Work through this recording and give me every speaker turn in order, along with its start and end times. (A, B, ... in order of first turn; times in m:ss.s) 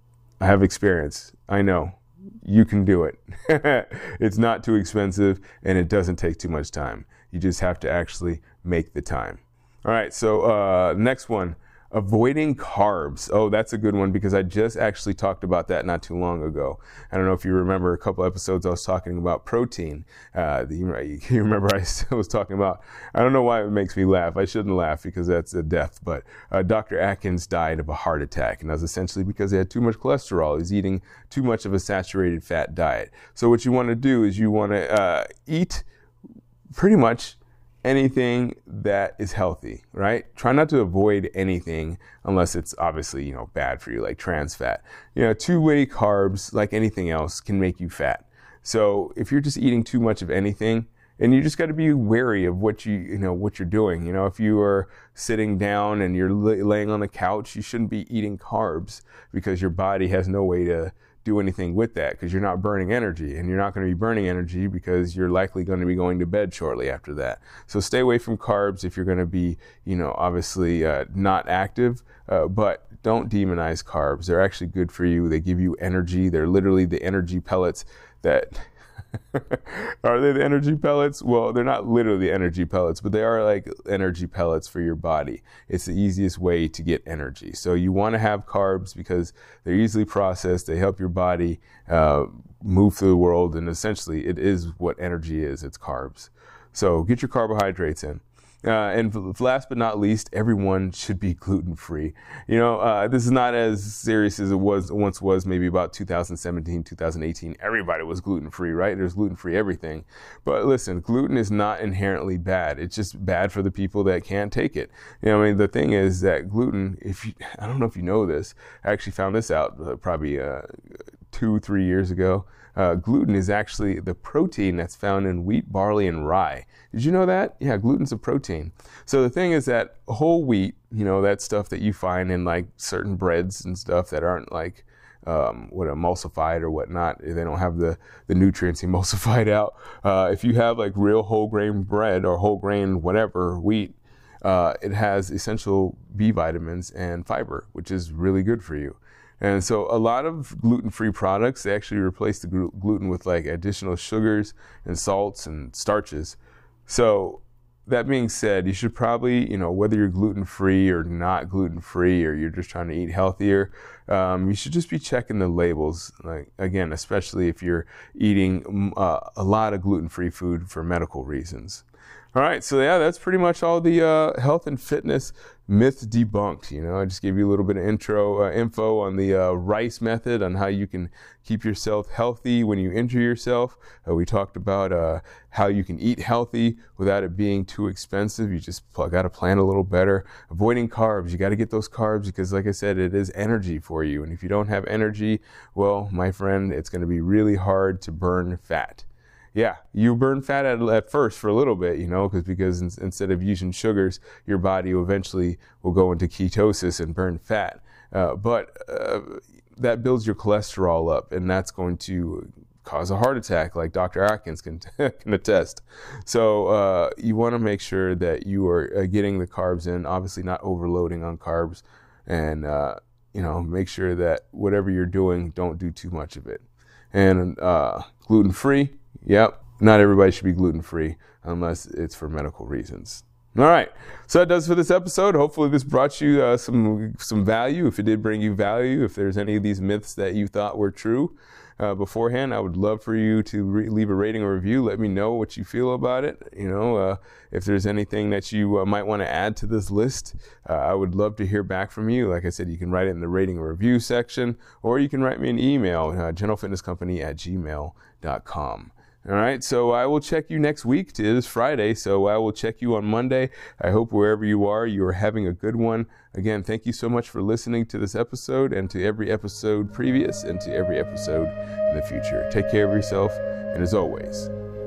0:00.4-0:35.9 A
0:36.7-2:00.7 A
2:01.3-4:34.5 A